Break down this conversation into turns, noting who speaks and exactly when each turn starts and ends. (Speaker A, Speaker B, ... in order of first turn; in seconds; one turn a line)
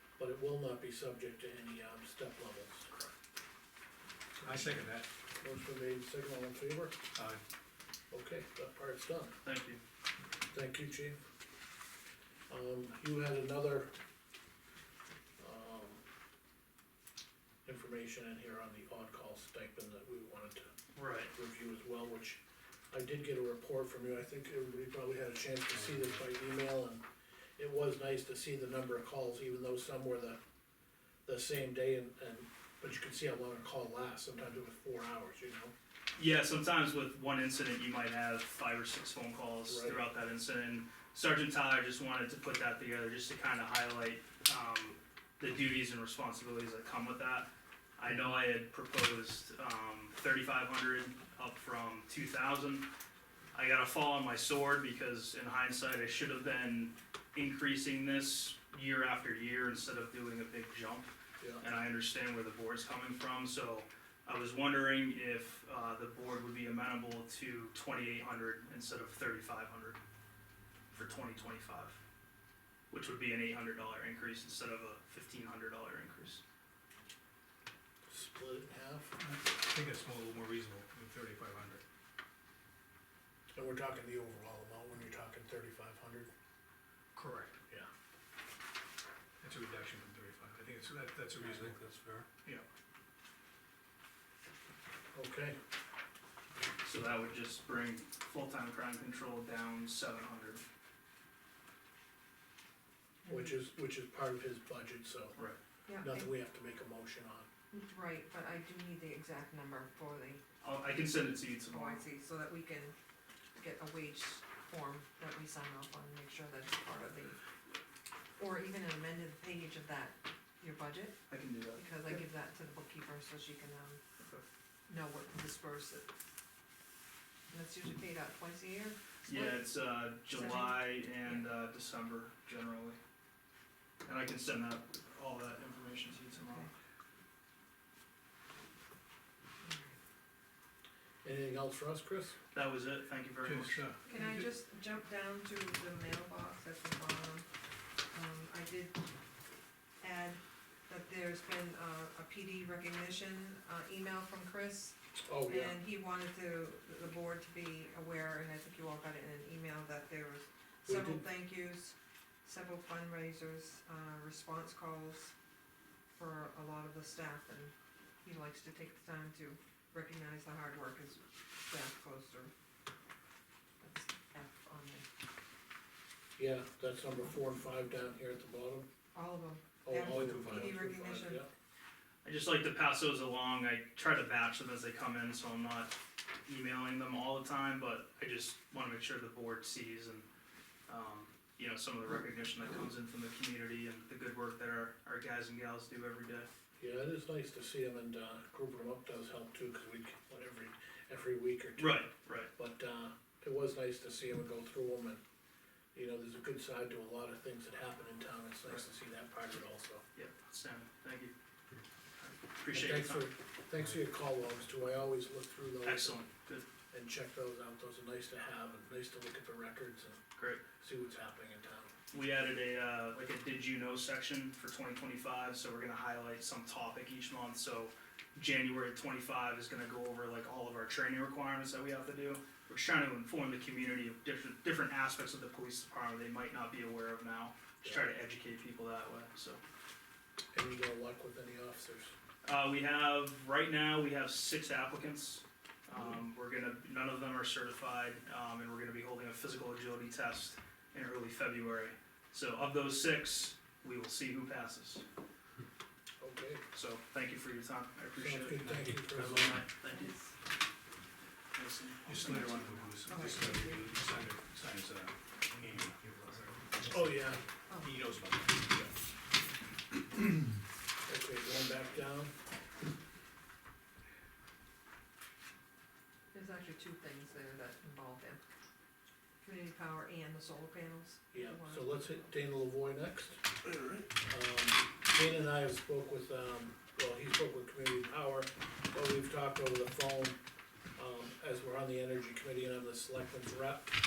Speaker A: 0.2-2.9
Speaker B: 4.4-5.1
Speaker A: 5.4-7.0
Speaker B: 7.1-7.4
Speaker A: 8.1-9.3
Speaker C: 9.4-9.8
Speaker A: 10.5-11.2
Speaker A: 12.5-13.9
Speaker A: 15.4-16.0
Speaker A: 17.6-20.7
Speaker C: 20.9-21.3
Speaker A: 21.3-22.4
Speaker A: 22.9-27.0
Speaker A: 27.6-30.4
Speaker A: 31.3-35.7
Speaker C: 36.2-52.9
Speaker A: 39.7-40.0
Speaker C: 53.5-70.0
Speaker C: 70.9-72.0
Speaker C: 72.9-76.4
Speaker A: 78.1-79.2
Speaker B: 79.2-81.8
Speaker A: 83.5-86.3
Speaker B: 87.2-87.6
Speaker B: 89.4-92.6
Speaker A: 95.1-95.6
Speaker C: 96.8-100.6
Speaker D: 103.2-103.6
Speaker A: 103.3-105.4
Speaker D: 105.9-106.3
Speaker A: 106.0-107.5
Speaker D: 107.7-110.4
Speaker C: 110.6-112.1
Speaker D: 111.7-113.0
Speaker D: 113.6-117.4
Speaker D: 118.4-121.2
Speaker C: 121.3-122.2
Speaker D: 121.8-124.0
Speaker D: 124.9-126.1
Speaker D: 127.5-129.7
Speaker C: 129.2-133.0
Speaker D: 130.3-131.4
Speaker C: 134.1-136.7
Speaker D: 136.3-136.7
Speaker D: 139.6-139.9
Speaker A: 141.2-142.4
Speaker C: 142.5-143.8
Speaker B: 143.4-144.4
Speaker D: 144.1-147.5
Speaker D: 148.1-149.0
Speaker D: 150.0-165.3
Speaker A: 155.2-155.8
Speaker A: 160.9-161.2
Speaker D: 166.2-167.7
Speaker D: 168.2-172.5
Speaker D: 173.8-175.1
Speaker A: 176.4-178.9
Speaker D: 179.1-181.4
Speaker A: 179.8-181.5
Speaker B: 180.0-180.7
Speaker C: 182.2-190.3
Speaker C: 190.9-196.5
Speaker A: 196.8-205.2
Speaker C: 201.8-202.5
Speaker A: 205.9-210.1
Speaker C: 210.2-211.3
Speaker C: 212.2-213.3
Speaker A: 212.7-216.3
Speaker C: 215.8-216.7
Speaker A: 216.9-220.2
Speaker C: 220.4-220.6
Speaker A: 220.8-221.9
Speaker C: 222.1-239.6
Speaker A: 240.5-242.1
Speaker C: 242.4-255.0
Speaker A: 256.2-256.6
Speaker C: 256.7-260.1
Speaker A: 258.2-259.6
Speaker D: 259.9-260.3
Speaker C: 261.5-263.1
Speaker B: 262.1-267.3
Speaker D: 263.1-263.8
Speaker A: 266.9-267.4
Speaker D: 267.7-268.0
Speaker B: 267.8-268.9
Speaker A: 271.1-272.3
Speaker D: 276.3-278.4
Speaker D: 279.4-282.3
Speaker A: 281.3-283.5
Speaker A: 284.1-290.4
Speaker A: 291.0-293.9